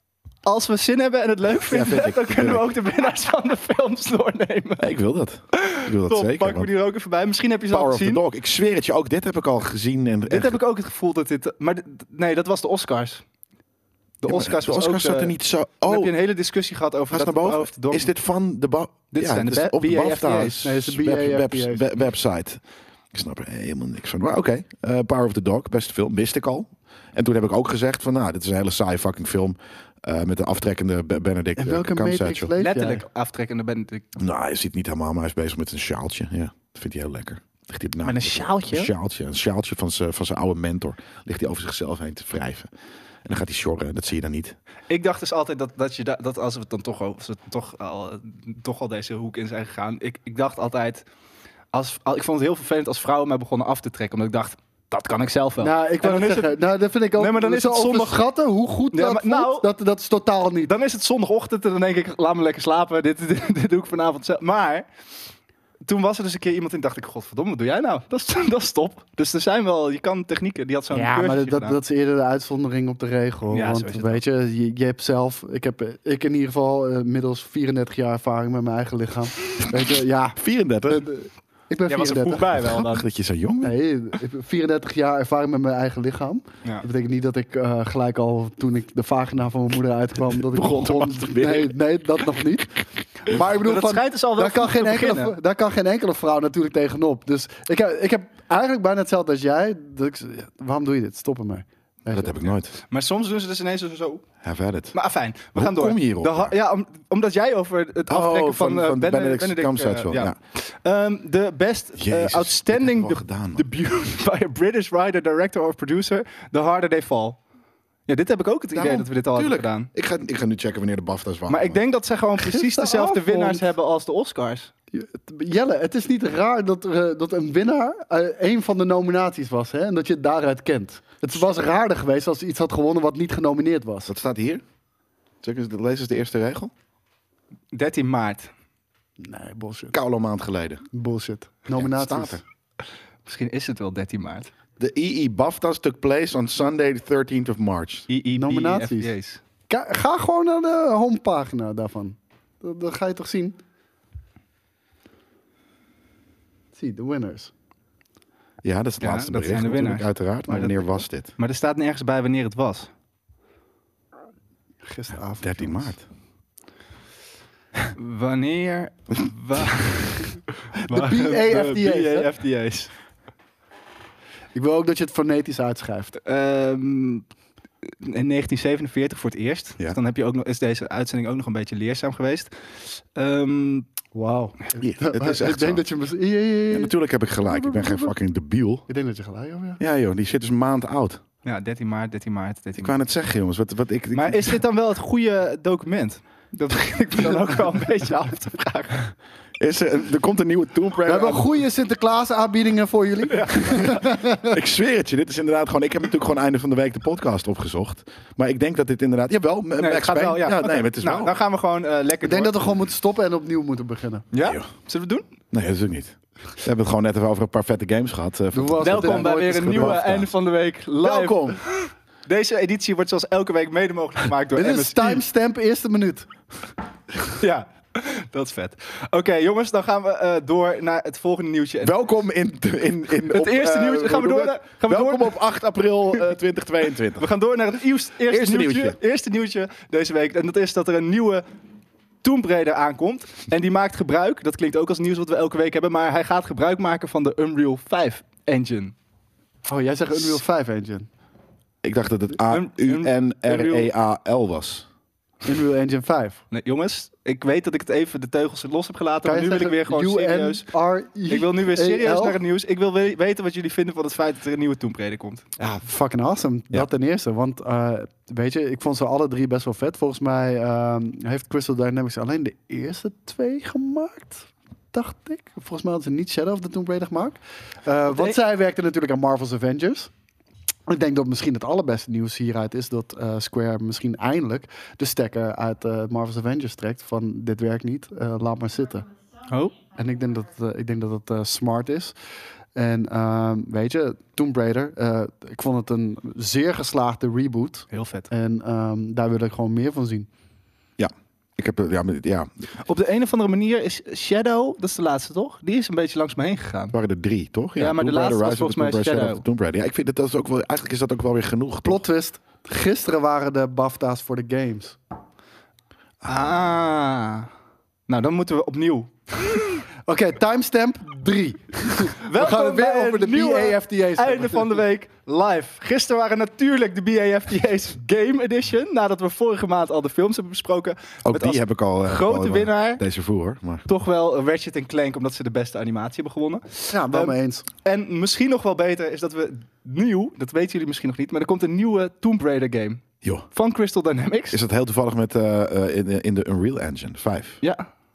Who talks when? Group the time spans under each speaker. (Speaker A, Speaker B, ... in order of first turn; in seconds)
Speaker A: 0.4-4.9, 5.5-8.2, 10.3-13.2, 14.2-18.1, 19.1-20.6, 32.6-34.0, 38.0-38.9, 44.9-51.0, 51.7-56.5, 57.2-58.2, 58.9-59.7, 60.7-64.8, 65.8-71.8, 73.5-74.2, 81.9-83.0, 93.5-95.3, 102.9-104.2, 104.9-117.4, 118.1-119.9, 121.5-124.7, 137.7-138.5, 143.2-144.5, 148.1-149.4, 159.0-160.7, 161.3-162.9, 167.9-172.9, 176.2-177.2, 177.9-183.9, 191.4-192.9, 194.1-199.1, 203.3-203.9, 209.8-212.7, 214.3-215.3, 218.8-225.2, 227.4-232.0, 233.2-235.4, 237.2-241.4, 242.2-248.9, 252.5-253.9, 256.5-260.7, 261.3-265.4, 278.1-278.4, 289.5-289.8, 297.9-298.3, 302.8-306.9, 307.8-309.4, 316.2-317.5, 318.1-319.8, 322.2-333.0, 333.9-344.6, 347.6-347.9
Speaker B: 1.6-2.6, 4.8-6.7, 7.7-10.6, 14.2-16.1, 17.1-22.6, 23.1-32.5, 34.1-42.7, 43.2-44.5, 80.4-81.0, 82.5-83.7, 90.4-91.7, 102.1-102.7, 104.4-104.9, 105.5-106.5, 108.1-110.3, 112.0-113.6, 118.7-121.8, 134.1-134.6, 135.4-136.7, 139.9-140.8, 141.7-142.4, 144.8-148.1, 158.6-161.3, 165.4-166.0, 184.8-185.8, 186.7-188.8, 189.8-191.2, 192.8-194.6, 199.6-201.5, 203.9-211.3, 215.5-220.3, 221.0-221.6, 231.8-237.3, 238.3-239.0, 251.8-254.9, 301.0-302.7, 306.9-312.0, 316.2-316.6, 331.2-333.9, 344.5-347.6
Speaker C: 20.6-21.9, 31.6-33.0, 55.6-60.7, 70.9-82.5, 83.6-102.5, 122.4-123.7, 124.9-134.1, 139.2-140.0, 140.9-142.4, 148.4-149.1, 149.7-153.6, 156.7-157.5, 164.8-165.9, 170.8-172.3, 174.5-176.2, 184.1-188.1, 188.9-189.8, 201.0-204.6, 212.2-214.3, 218.5-220.0, 224.5-226.3, 249.7-251.1, 255.4-256.4, 259.2-262.4, 265.6-280.1, 280.9-289.1, 289.9-292.1, 292.7-300.3, 311.8-315.0, 320.1-324.8, 336.9-337.6